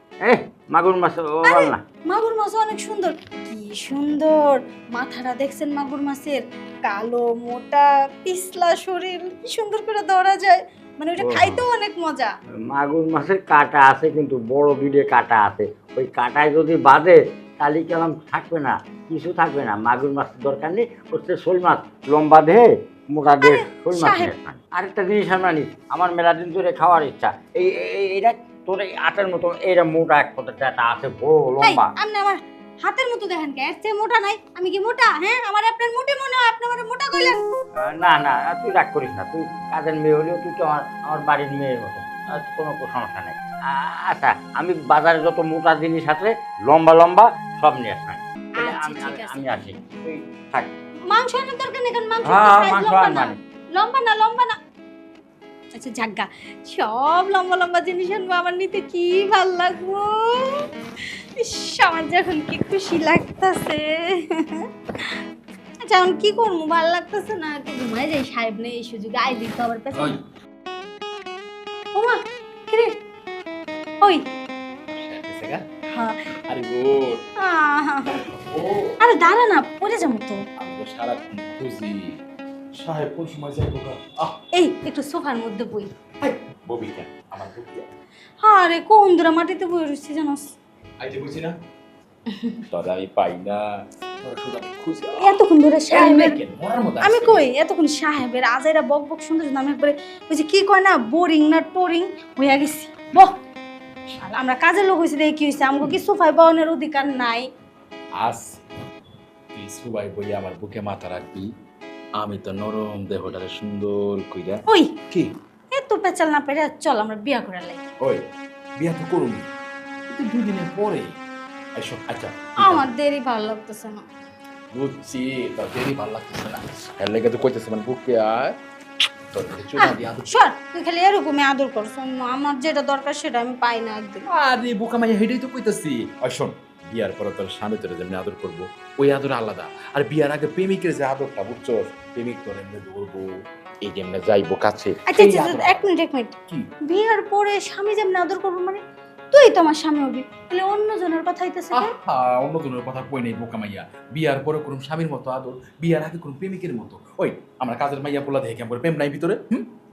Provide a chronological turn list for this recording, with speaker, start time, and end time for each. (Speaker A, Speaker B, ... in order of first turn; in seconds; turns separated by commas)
Speaker A: 0.2-1.8, Speaker B: 1.4-12.3, Speaker A: 11.2-11.6, Speaker A: 12.7-31.9, Speaker B: 23.4-24.3, Speaker B: 31.6-37.4, Speaker A: 37.8-50.7, Speaker B: 48.6-49.5, Speaker B: 51.1-54.5, Speaker A: 52.2-53.4, Speaker B: 55.7-65.2, Speaker B: 65.8-70.2, Speaker B: 71.9-72.9, Speaker C: 74.9-75.6, Speaker B: 75.9-76.2, Speaker C: 76.5-77.2, Speaker B: 77.4-78.2, Speaker C: 78.2-79.0, Speaker B: 79.0-80.4, Speaker C: 80.6-82.2, Speaker C: 82.7-84.4, Speaker B: 84.5-85.9, Speaker C: 86.2-87.9, Speaker B: 88.4-90.5, Speaker C: 91.0-91.5, Speaker B: 92.3-92.6, Speaker C: 92.7-93.6, Speaker C: 94.2-97.4, Speaker B: 95.2-96.4, Speaker B: 97.0-103.3, Speaker B: 104.2-107.5, Speaker C: 108.2-108.6, Speaker C: 109.5-111.5, Speaker C: 112.2-115.3, Speaker B: 114.7-114.9, Speaker B: 115.7-117.8, Speaker C: 118.8-119.5, Speaker C: 120.1-121.1, Speaker C: 121.8-122.8, Speaker B: 122.6-124.0, Speaker C: 124.7-128.6, Speaker C: 129.3-130.3, Speaker B: 129.8-134.2, Speaker C: 134.3-143.3, Speaker C: 143.8-145.8, Speaker B: 145.1-151.9, Speaker C: 151.7-159.7